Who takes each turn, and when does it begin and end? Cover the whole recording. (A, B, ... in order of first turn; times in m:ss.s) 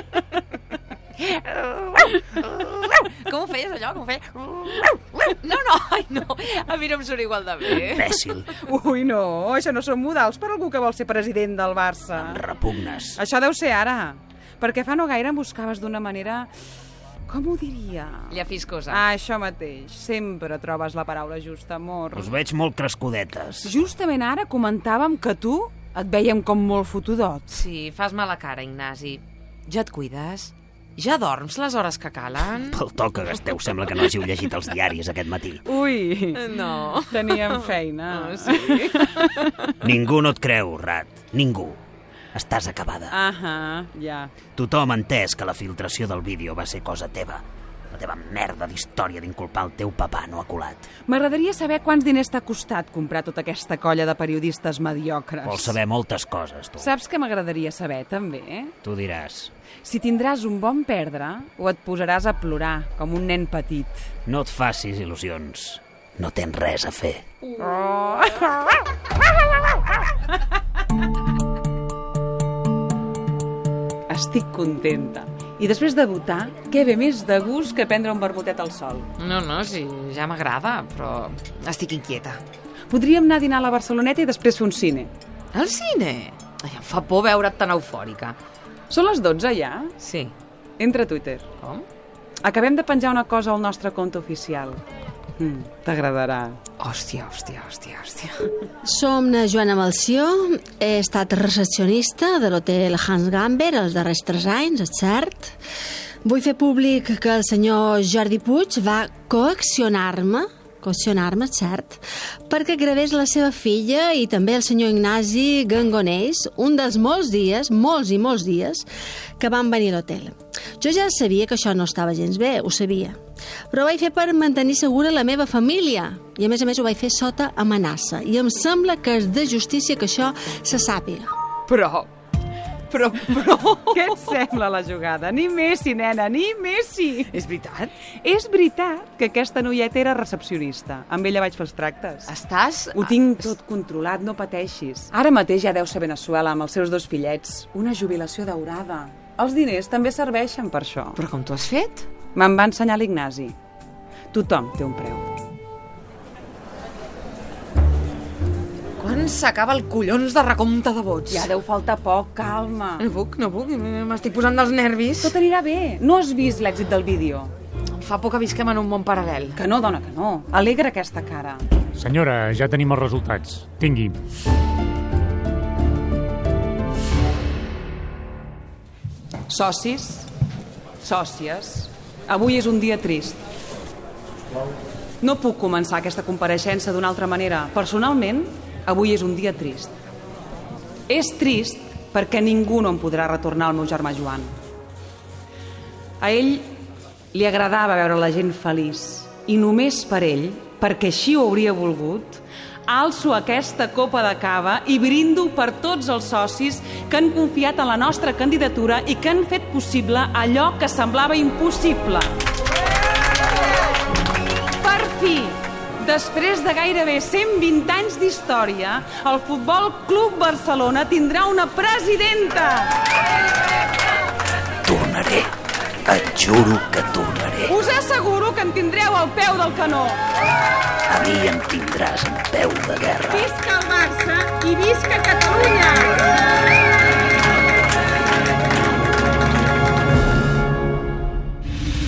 0:01.2-0:08.2 A
0:07.8-0:08.5 B
0:08.6-0:12.4 C
0:12.2-0:13.2 B
0:13.2-0:16.5 C
0:17.3-0:18.4 C
0:18.3-0:19.1 A
0:18.9-0:22.3 C
0:22.1-0:23.7 B
0:23.6-0:27.6 C
0:27.5-0:32.8 A
0:32.7-0:35.6 B
0:35.6-0:39.3 C
0:36.4-0:39.7 A
0:39.8-0:41.8 B
0:42.3-0:43.2 B
0:43.1-0:44.3 C
0:44.6-0:50.9 B
0:51.1-0:55.8 C
0:55.4-0:56.9 B
0:56.8-0:58.8 C
0:58.8-0:59.5 B
0:59.8-1:04.0 C
1:04.3-1:07.2 B
1:07.6-1:08.6 C
1:14.1-1:19.1 C
1:19.2-1:22.4 A
1:22.9-1:25.1 C
1:25.5-1:28.4 A
1:28.9-1:29.9 C
1:30.0-1:30.3 A
1:30.8-1:31.5 C
1:31.6-1:31.9 A
1:32.4-1:34.8 C
1:35.4-1:36.6 C
1:36.8-1:38.5 A
1:38.8-1:45.6 D
1:46.2-1:58.9 D
1:59.4-2:03.2 D
2:03.7-2:11.3 D
2:11.7-2:12.1 A
2:12.9-2:14.3 A
2:13.9-2:17.3 C
2:17.3-2:17.9 A
2:18.2-2:22.3 C
2:22.3-2:23.6 A
2:22.9-2:31.2 C
2:31.2-2:32.1 A
2:32.3-2:33.6 C
2:34.3-2:35.3 C
2:39.0-2:41.5 A
2:41.3-2:43.1 C
2:43.0-2:45.4 A
2:45.2-2:47.5 C
2:48.0-2:49.6 A
2:49.6-2:51.7 C
2:52.0-2:54.2 E
2:59.5-3:00.3 C
3:01.0-3:03.4 C
3:05.2-3:10.0 C
3:11.1-3:14.5 C
3:16.2-3:16.8 C
3:17.3-3:32.3 C
3:34.8-3:43.0 C
3:44.9-3:45.5 B
3:46.1-3:47.7 B
3:47.7-3:50.2 C
3:51.1-3:53.5 B
3:53.3-3:56.2 C